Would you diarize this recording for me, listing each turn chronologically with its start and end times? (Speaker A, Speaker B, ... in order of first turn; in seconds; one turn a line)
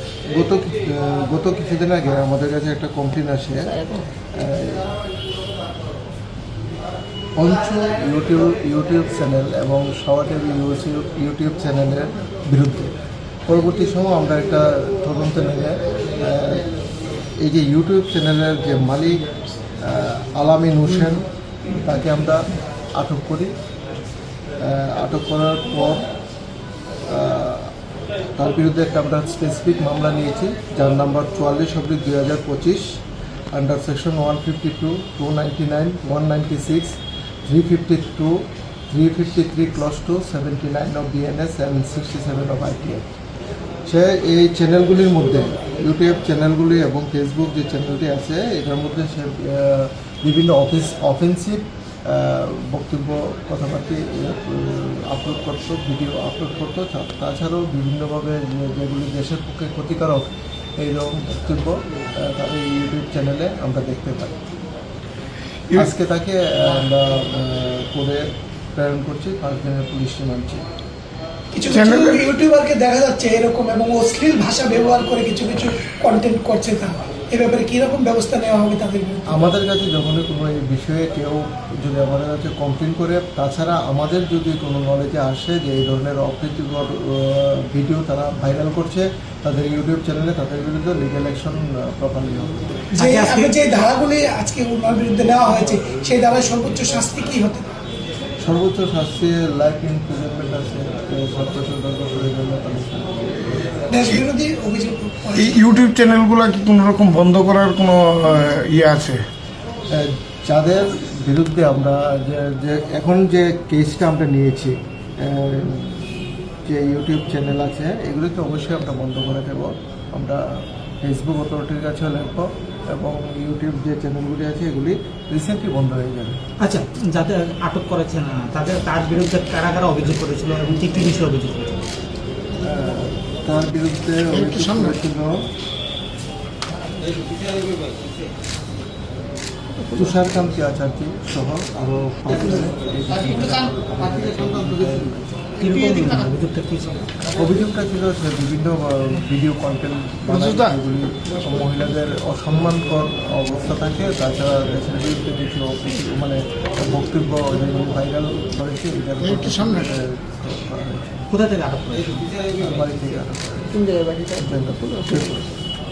Speaker A: 0.3-3.7
Speaker B: 3.6-4.0
Speaker A: 4.3-4.9
Speaker A: 7.4-12.9
Speaker A: 13.5-16.6
Speaker A: 17.4-19.2
Speaker A: 19.8-21.2
Speaker A: 21.8-23.5
Speaker A: 24.6-26.1
Speaker A: 27.1-27.7
Speaker A: 28.4-32.9
Speaker A: 33.5-37.0
Speaker A: 37.5-38.3
Speaker A: 38.9-43.0
Speaker A: 43.9-60.3
Speaker A: 60.8-64.3
Speaker A: 65.7-70.6
Speaker C: 71.5-79.5
Speaker D: 71.7-72.3
Speaker A: 79.3-92.8
Speaker C: 92.9-97.7
Speaker E: 93.0-93.5
Speaker A: 98.4-103.7
Speaker C: 103.9-105.8
Speaker D: 105.3-109.2
Speaker A: 109.9-126.4
Speaker E: 126.6-131.8
Speaker A: 132.6-135.5
Speaker B: 139.8-140.2
Speaker A: 139.9-145.6
Speaker E: 145.6-147.1
Speaker A: 147.3-161.2
Speaker D: 150.3-150.7
Speaker E: 161.3-162.3
Speaker A: 162.5-163.7
Speaker B: 163.7-165.5
Speaker A: 164.4-165.4